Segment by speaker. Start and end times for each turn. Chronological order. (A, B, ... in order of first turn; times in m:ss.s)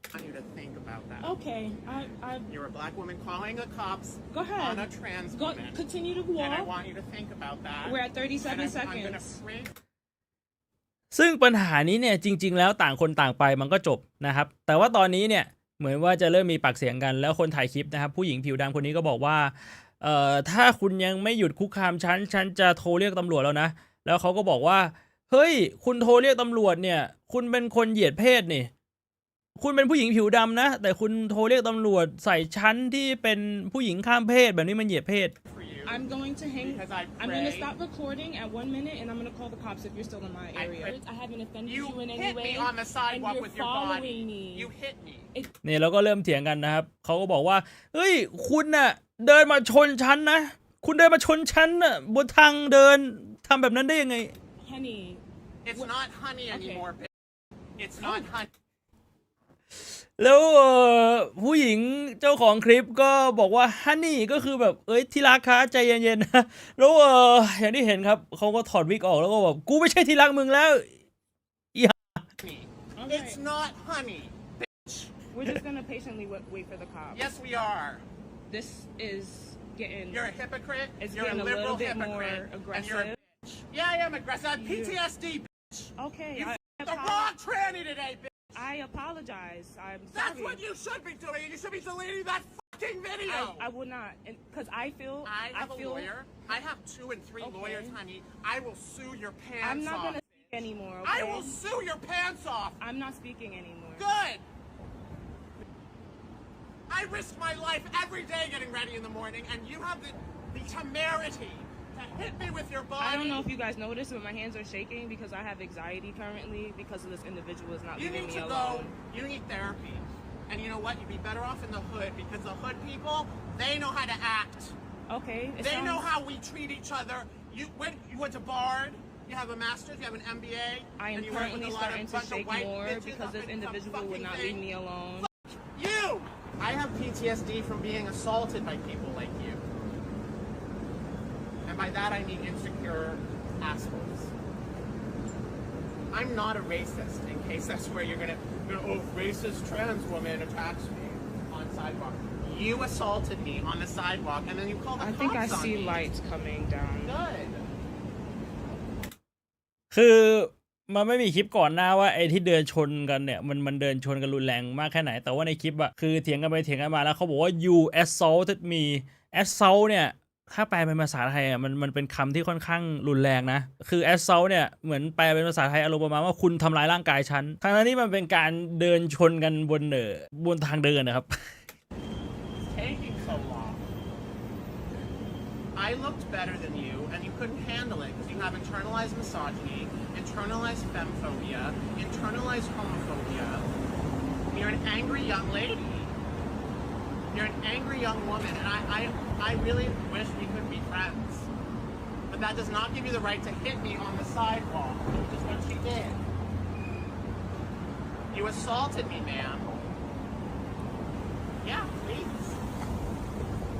0:00.1-0:01.3 A
0:01.2-0:02.5 B
0:02.5-0:05.8 A
0:04.3-0:06.7 B
0:06.4-0:09.7 A
0:07.8-0:09.4 B
0:11.1-0:28.7 C
0:29.6-0:35.3 C
0:35.4-0:36.0 A
0:35.8-0:44.7 B
0:36.6-0:37.7 A
0:40.5-0:41.0 A
0:41.6-0:45.2 A
0:45.6-0:54.3 C
0:54.6-0:55.2 B
0:55.6-0:57.1 A
0:56.5-0:56.8 B
0:57.8-0:58.5 A
1:00.2-1:10.9 C
1:12.4-1:15.1 A
1:13.0-1:13.4 B
1:15.3-1:17.3 B
1:17.1-1:18.0 A
1:18.5-1:20.3 B
1:20.1-1:28.5 A
1:21.0-1:23.2 B
1:24.6-1:25.0 B
1:26.0-1:27.3 B
1:28.5-1:30.6 B
1:30.1-1:33.7 A
1:33.3-1:36.1 B
1:35.2-1:40.4 A
1:37.4-1:38.0 B
1:39.6-1:41.6 B
1:41.0-1:42.8 A
1:42.8-1:44.0 B
1:44.0-1:44.4 A
1:46.9-1:53.5 A
1:53.0-1:58.9 B
1:58.0-2:04.7 A
2:05.1-2:06.0 B
2:05.6-2:14.6 A
2:11.0-2:15.3 B
2:15.2-2:19.6 A
2:21.6-2:24.3 A
2:26.1-2:36.1 A
2:35.0-2:37.2 B
2:37.0-2:37.6 A
2:39.9-3:01.3 C
3:02.6-3:03.8 A
3:05.7-3:13.7 A
3:14.5-3:16.1 A
3:17.3-3:21.5 A
3:22.3-3:26.2 A
3:28.3-3:29.7 A
3:31.6-3:32.6 A